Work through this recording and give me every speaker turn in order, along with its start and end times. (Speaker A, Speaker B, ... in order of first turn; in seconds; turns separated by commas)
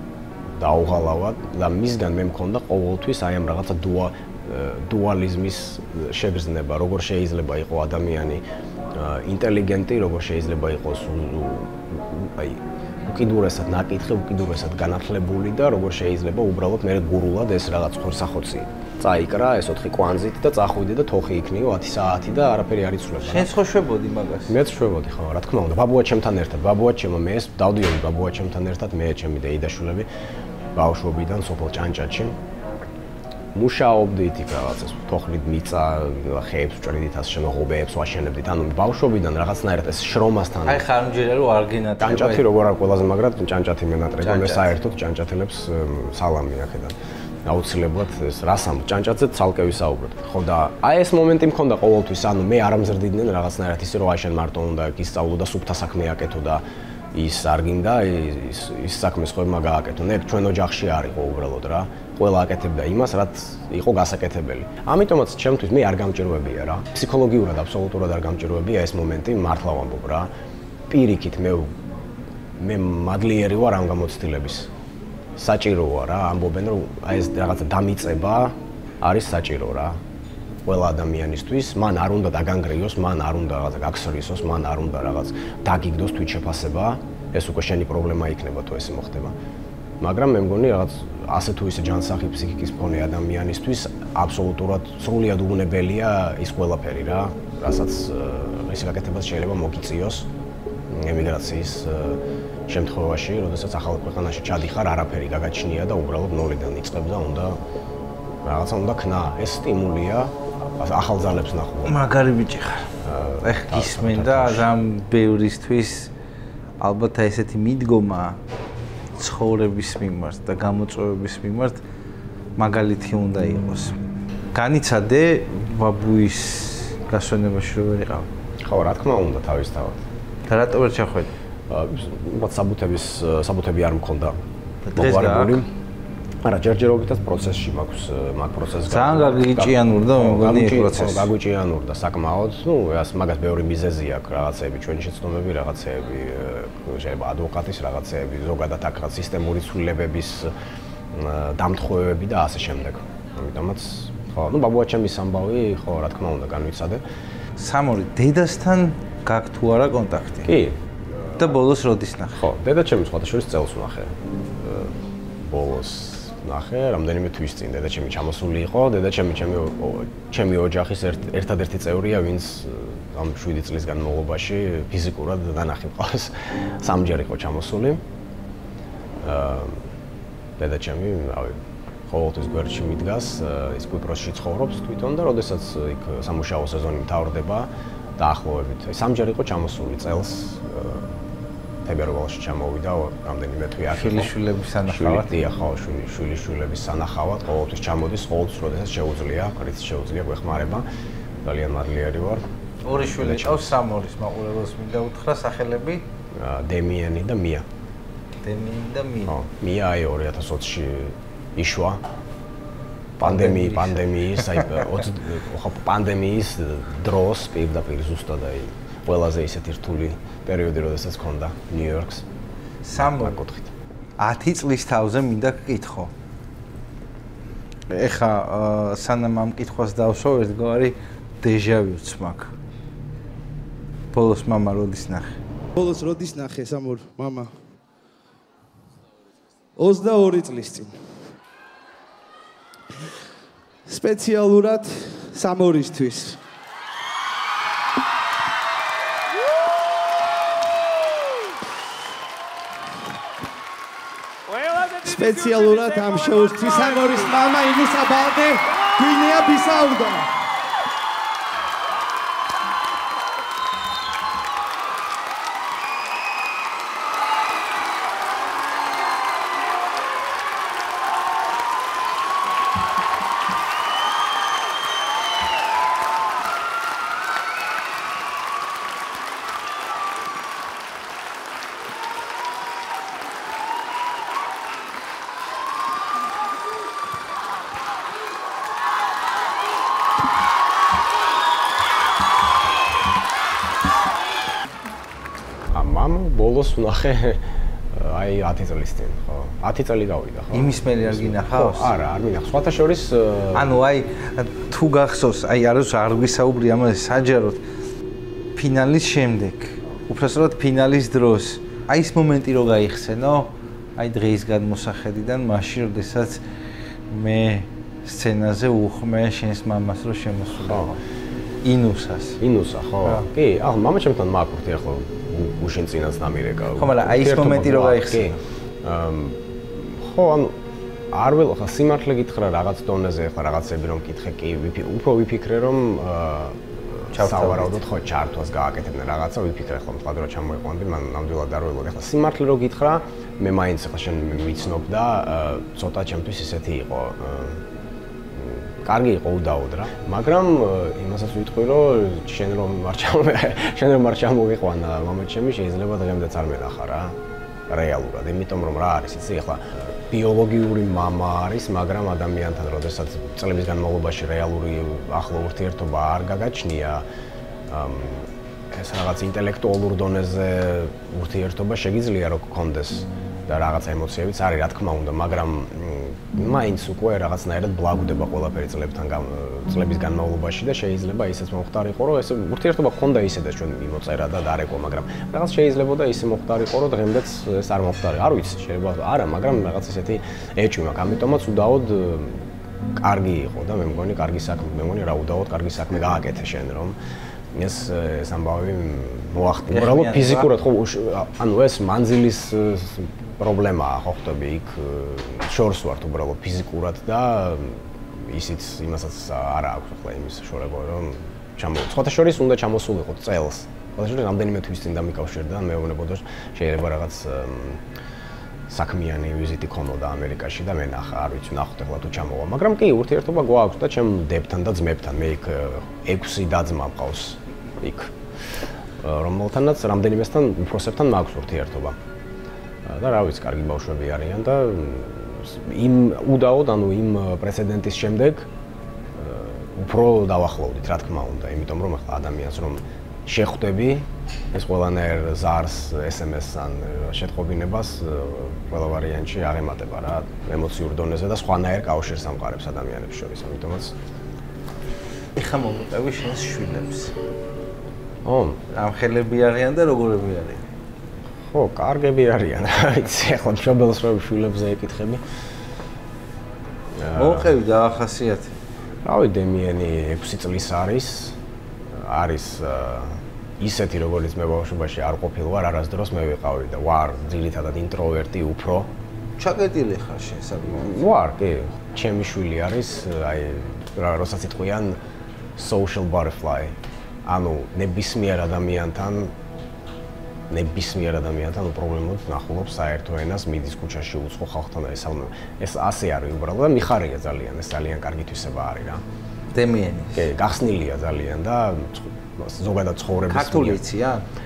Speaker A: 0.6-8.4, Speaker A: 8.9-23.5, Speaker B: 23.2-24.5, Speaker A: 24.5-30.1, Speaker A: 30.7-32.4, Speaker A: 33.5-40.8, Speaker B: 40.6-42.5, Speaker A: 42.0-70.3, Speaker B: 44.2-44.8, Speaker A: 70.9-71.7, Speaker A: 72.5-74.7, Speaker A: 75.3-80.0, Speaker A: 80.6-89.3, Speaker A: 90.0-100.3, Speaker A: 100.9-107.6, Speaker A: 108.4-112.0, Speaker B: 111.8-112.9, Speaker A: 113.0-114.7, Speaker B: 113.4-116.1, Speaker B: 116.8-118.4, Speaker B: 119.2-121.8, Speaker B: 122.6-124.0, Speaker B: 124.5-128.3, Speaker A: 128.6-130.0, Speaker B: 130.5-131.3, Speaker A: 131.7-134.4, Speaker B: 134.8-135.6, Speaker A: 134.9-135.7, Speaker A: 136.4-150.5, Speaker B: 138.9-141.3, Speaker A: 151.1-157.0, Speaker B: 157.6-160.6, Speaker A: 160.4-160.8, Speaker B: 161.4-162.5, Speaker A: 162.4-178.0, Speaker A: 179.2-179.8, Speaker A: 180.6-191.1, Speaker A: 191.8-194.3, Speaker B: 193.9-195.3, Speaker A: 194.8-200.8, Speaker A: 201.4-203.8, Speaker B: 202.8-206.0, Speaker A: 206.3-207.6, Speaker B: 208.4-209.3, Speaker A: 209.2-212.0, Speaker A: 213.2-222.2, Speaker B: 213.2-214.7, Speaker B: 222.8-223.4, Speaker A: 223.0-223.7, Speaker B: 224.2-226.1, Speaker B: 227.9-232.5, Speaker B: 234.1-235.4, Speaker C: 235.8-237.5, Speaker C: 239.8-241.3, Speaker C: 243.9-246.4, Speaker C: 254.9-260.3, Speaker A: 295.7-303.8, Speaker B: 300.5-301.9, Speaker B: 303.5-307.6, Speaker B: 308.6-316.4, Speaker B: 317.1-321.0, Speaker A: 320.6-320.9, Speaker B: 321.6-322.4, Speaker A: 322.4-330.6, Speaker B: 326.8-328.4, Speaker A: 331.1-347.6, Speaker B: 337.1-337.8, Speaker A: 348.4-357.1, Speaker A: 357.7-367.0, Speaker A: 367.7-392.4, Speaker A: 393.0-397.0, Speaker A: 397.5-417.8, Speaker B: 399.7-400.5, Speaker A: 418.7-432.0, Speaker A: 432.9-438.5, Speaker A: 439.1-453.9, Speaker B: 455.4-457.1, Speaker A: 458.2-458.6, Speaker B: 458.7-460.6, Speaker A: 461.5-465.2, Speaker A: 467.0-467.5, Speaker B: 467.1-468.5, Speaker A: 469.0-471.4, Speaker A: 471.9-478.9, Speaker B: 479.4-481.0, Speaker A: 480.7-485.0, Speaker A: 485.6-486.7, Speaker A: 487.2-489.3, Speaker A: 490.5-499.0, Speaker B: 499.5-500.3, Speaker A: 500.1-503.8, Speaker B: 503.3-504.2